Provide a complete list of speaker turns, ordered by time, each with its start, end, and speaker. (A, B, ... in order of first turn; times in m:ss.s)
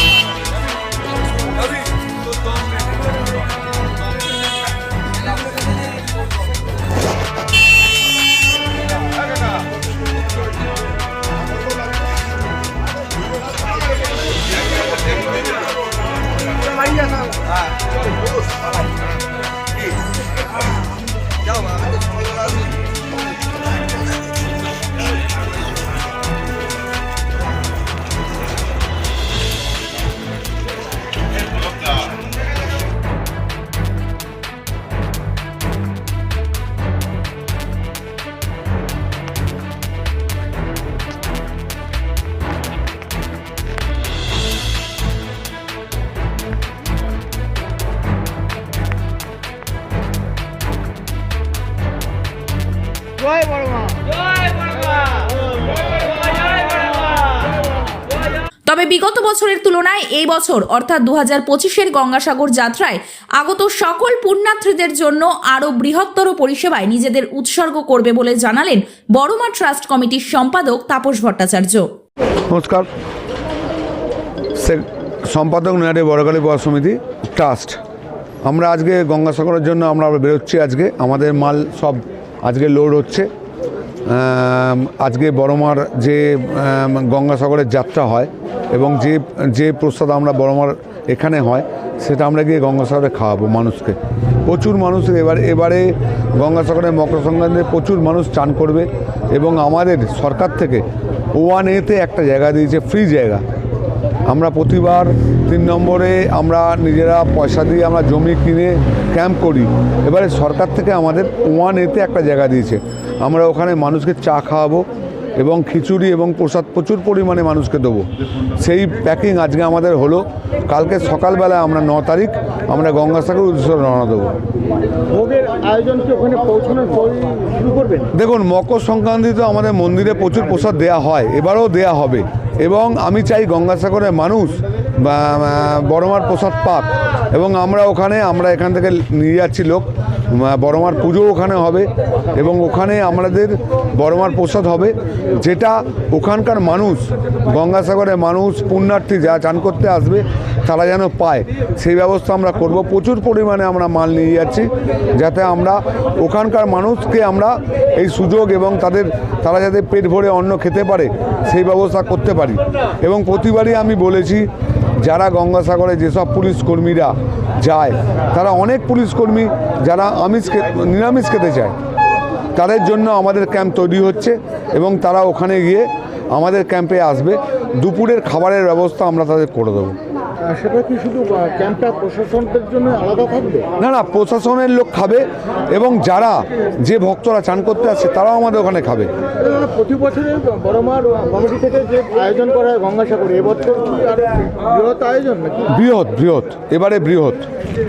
0:02.0-0:03.0 A
0:58.7-1:11.9 B
1:12.5-1:12.9 A
1:14.6-1:17.8 A
1:18.4-1:23.3 A
1:24.1-1:43.4 A
1:44.3-1:54.8 A
1:55.4-1:58.1 A
1:58.6-2:04.3 A
2:05.1-2:08.1 C
2:08.1-2:44.5 A
2:45.0-2:51.8 A
2:52.6-3:00.0 A
3:00.4-3:03.7 C
3:03.8-3:09.1 A
3:09.4-3:15.7 C
3:15.7-3:17.5 A